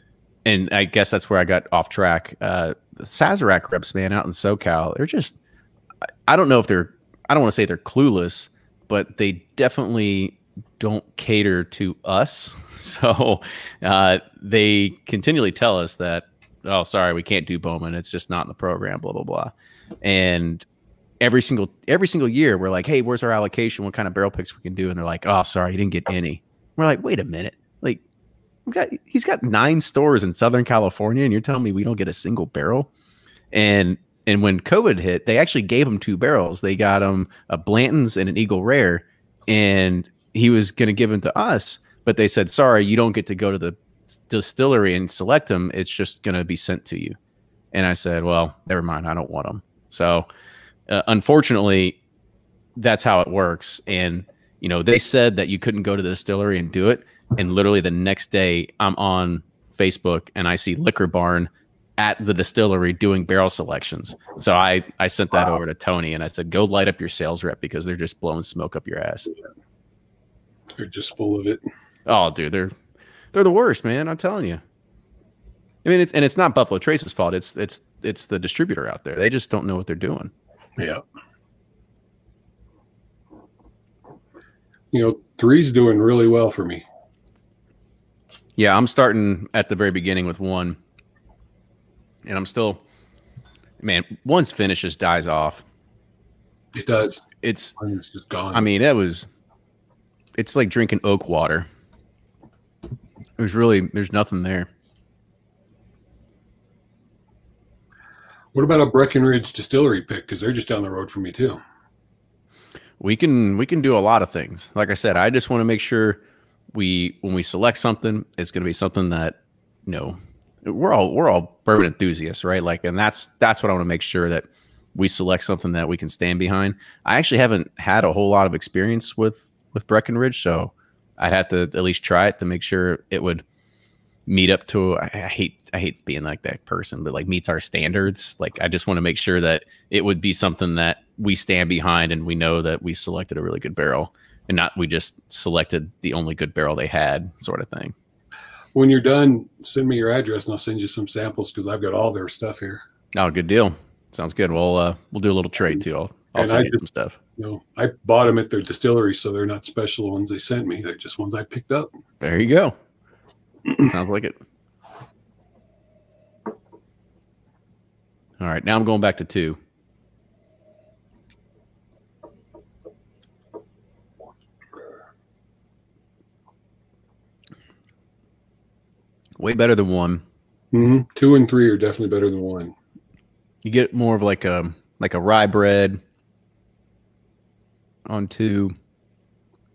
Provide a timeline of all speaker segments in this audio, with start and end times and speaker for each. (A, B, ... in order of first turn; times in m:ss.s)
0:00.4-0:05.4 A
0:06.3-0:20.6 A
0:21.2-0:28.0 A
0:28.6-0:32.9 A
0:33.5-0:47.2 A
0:47.7-0:50.3 A
0:50.9-0:52.0 A
0:52.8-1:09.3 A
1:10.8-1:11.6 B
1:12.0-1:12.7 A
1:13.3-1:14.6 A
1:15.8-1:20.3 A
1:24.9-1:26.8 B
1:28.6-1:30.8 A
1:32.2-1:32.8 A
1:33.8-1:35.6 A
1:36.7-1:37.2 B
1:37.4-1:37.8 A
1:37.8-1:38.7 B
1:38.5-1:39.3 A
1:40.4-1:41.7 A
1:43.4-1:44.7 A
1:48.5-1:51.6 B
1:53.0-1:56.2 A
1:56.7-2:13.4 A
2:14.3-2:27.9 A
2:28.7-2:32.8 B
2:33.1-2:37.2 A
2:36.4-2:36.8 B
2:37.4-2:41.9 B
2:42.2-2:42.8 A
2:43.8-2:44.4 A
2:48.4-2:49.6 A
2:59.4-3:00.2 A
3:00.7-3:02.7 B
3:03.6-3:06.0 A
3:08.1-3:08.7 A